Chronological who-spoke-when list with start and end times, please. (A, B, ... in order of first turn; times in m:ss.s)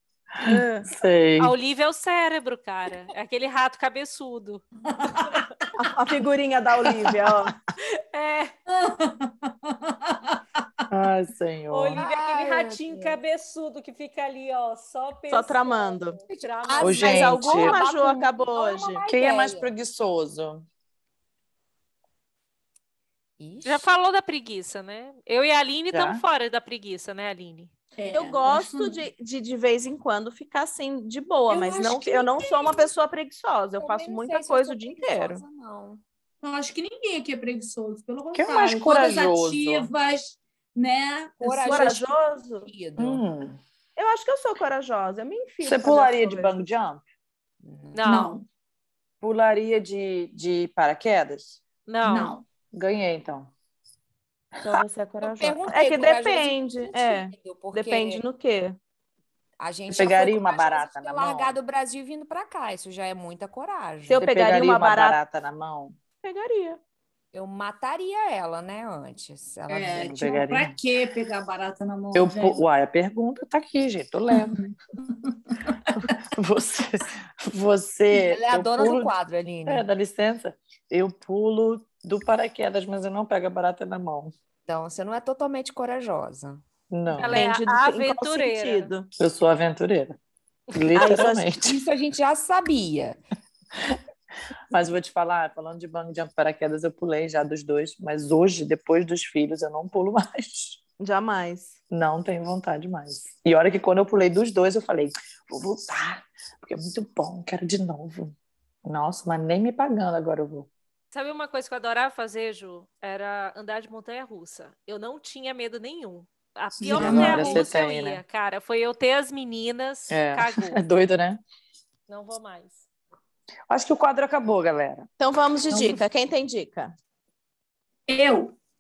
0:00.4-0:01.6 A
0:00.4-0:00.9 B
0:01.4-0:04.6 C
0:04.9-0:05.5 D
0:05.2-0:05.5 C
0:05.8-0:07.6 B
0:07.8-0:08.5 C
0:08.7-0:10.7 D
0:10.9-0:12.0 A
0:11.7-0:17.1 C
0:12.0-0:13.2 E
0:15.3-0:16.2 B
0:16.3-0:19.7 E
0:16.8-0:17.8 A
0:16.8-0:19.0 B
0:19.1-0:20.7 A
0:23.4-0:23.9 E
0:23.6-0:27.7 C
0:25.9-0:26.2 A
0:28.0-0:29.0 D
0:28.1-0:35.4 B
0:31.5-0:32.9 D
0:33.8-0:36.0 E
0:36.4-0:42.0 D
0:38.3-0:39.9 A
0:41.4-0:43.2 E
0:41.6-0:42.7 B
0:43.0-0:43.6 A
0:44.0-0:46.6 B
0:45.6-0:47.0 A
0:47.6-0:48.0 E
0:47.9-0:48.4 C
0:48.1-0:48.4 D
0:49.2-0:51.6 A
0:51.9-0:52.3 C
0:52.0-0:52.4 D
0:52.7-0:53.5 A
0:54.6-0:58.8 B
0:55.2-0:58.2 E
0:59.6-1:04.2 E
0:59.9-1:01.6 A
1:04.1-1:05.2 B
1:04.2-1:06.0 A
1:06.2-1:06.8 B
1:07.3-1:10.3 E
1:09.7-1:12.6 D
1:10.0-1:10.8 A
1:12.1-1:14.6 A
1:14.3-1:14.7 D
1:15.2-1:16.1 D
1:16.0-1:19.1 A
1:18.2-1:19.8 E
1:19.7-1:24.3 A
1:24.7-1:26.6 E
1:26.9-1:27.4 A
1:27.1-1:28.9 C
1:27.3-1:29.1 B
1:29.2-1:30.2 A
1:30.7-1:31.8 A
1:30.9-1:31.5 B
1:31.6-1:33.2 E
1:34.7-1:40.8 A
1:41.0-1:41.8 B
1:41.9-1:50.7 A
1:51.1-2:00.8 C
1:56.9-1:58.2 A
1:57.0-1:57.6 B
1:57.0-1:57.2 D
2:00.1-2:01.4 A
2:02.1-2:02.9 C
2:03.7-2:05.1 A
2:05.2-2:06.9 B
2:05.7-2:06.0 A
2:08.1-2:08.5 D